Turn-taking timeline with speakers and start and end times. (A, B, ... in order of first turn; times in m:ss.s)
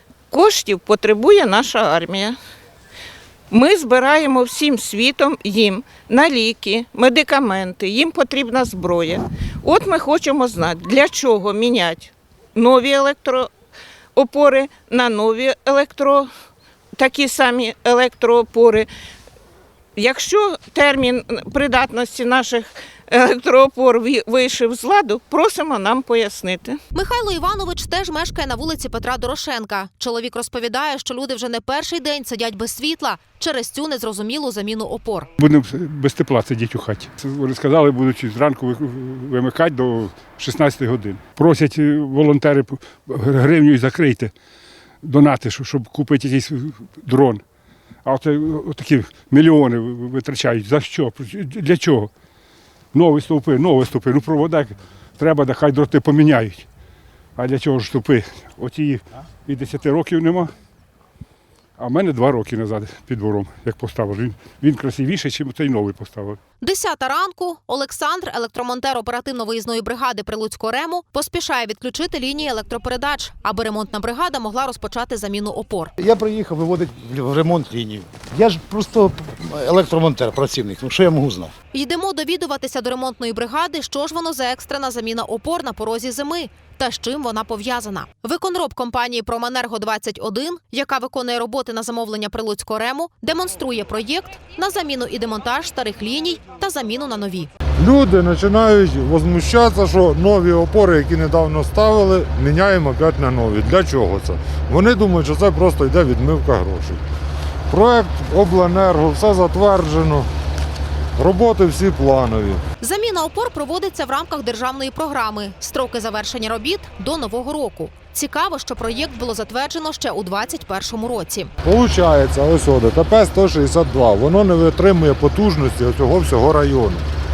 0:00.3-0:02.3 A
0:03.5-0:13.5 A
0:14.2-0:16.3 A
0:17.0-0:18.9 A
0:20.0-0:26.8 A
0:26.9-0:35.3 B
0:35.4-0:44.3 C
0:45.0-0:47.4 C
0:48.0-0:52.1 C
0:52.9-0:56.6 C
0:57.4-1:00.5 C
1:01.8-1:06.4 C
1:06.6-1:15.9 B
1:16.0-1:21.5 D
1:21.7-1:37.5 B
1:37.8-1:47.0 E
1:47.7-1:50.3 E
1:51.2-1:52.6 E
1:52.8-2:01.5 B
2:01.6-2:07.0 E